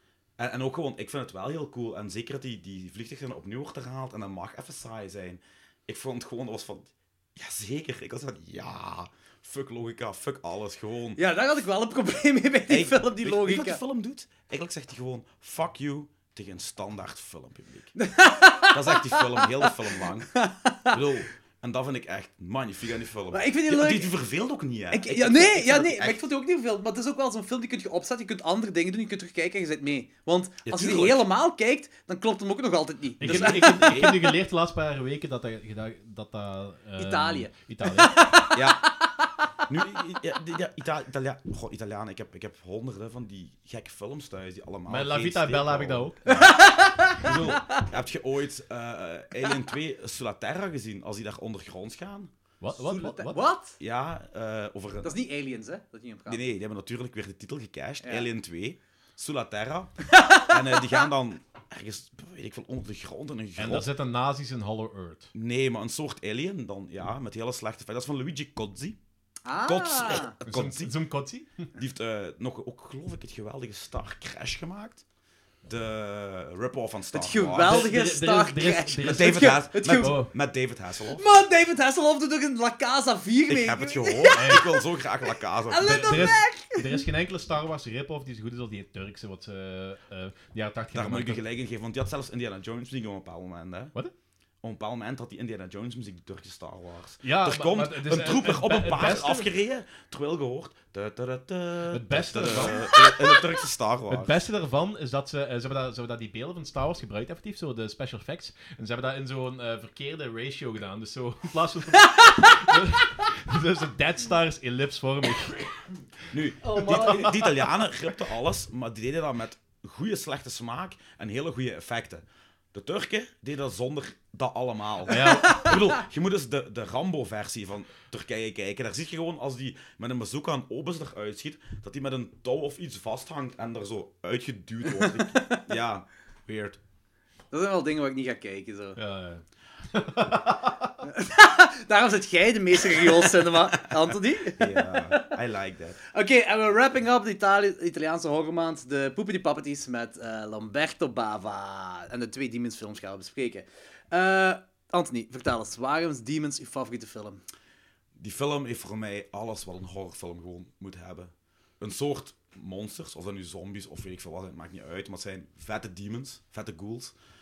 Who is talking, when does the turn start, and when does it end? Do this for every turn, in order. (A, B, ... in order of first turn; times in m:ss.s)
0:00.4-0:11.2 A
0:11.2-0:13.8 B
0:12.7-0:18.0 A
0:18.0-0:19.8 B
0:18.5-0:20.3 A
0:20.3-0:21.0 B
0:20.9-0:26.2 A
0:23.3-0:24.1 B
0:24.9-0:34.3 B
0:30.6-0:31.2 A
0:33.2-0:38.3 C
0:33.2-0:34.3 A
0:37.0-0:39.4 B
0:38.5-0:38.9 A
0:39.7-0:46.5 A
0:44.9-0:46.4 C
0:46.3-0:47.8 B
0:47.1-0:52.3 A
0:52.6-0:53.4 C
0:52.8-0:53.8 B
0:53.8-0:55.1 A
0:55.0-0:56.4 B
0:56.3-1:03.9 A
0:58.0-0:58.3 B
1:00.1-1:01.0 B
1:03.6-1:05.3 C
1:05.3-1:09.0 A
1:09.5-1:10.3 B
1:09.6-1:10.9 A
1:10.5-1:11.7 C
1:11.8-1:15.0 A
1:15.6-1:18.0 A
1:17.1-1:20.2 B
1:17.6-1:20.3 C
1:19.0-1:21.2 A
1:21.1-1:24.8 B
1:23.5-1:26.4 A
1:24.3-1:24.7 C
1:25.7-1:27.1 B
1:25.8-1:31.4 C
1:30.9-1:34.0 A
1:34.6-1:44.4 A
1:37.2-1:39.5 C
1:41.9-1:43.1 C
1:44.1-1:55.8 C
1:52.1-1:52.5 B
1:56.3-2:16.8 A
1:56.6-1:57.3 B
1:56.7-1:57.4 C
2:05.1-2:05.8 C
2:05.3-2:05.7 B
2:15.0-2:15.7 B
2:17.5-2:19.0 B
2:19.0-2:21.0 C
2:21.0-2:25.3 B
2:24.5-2:26.0 A
2:26.1-2:37.4 B
2:38.2-2:47.1 A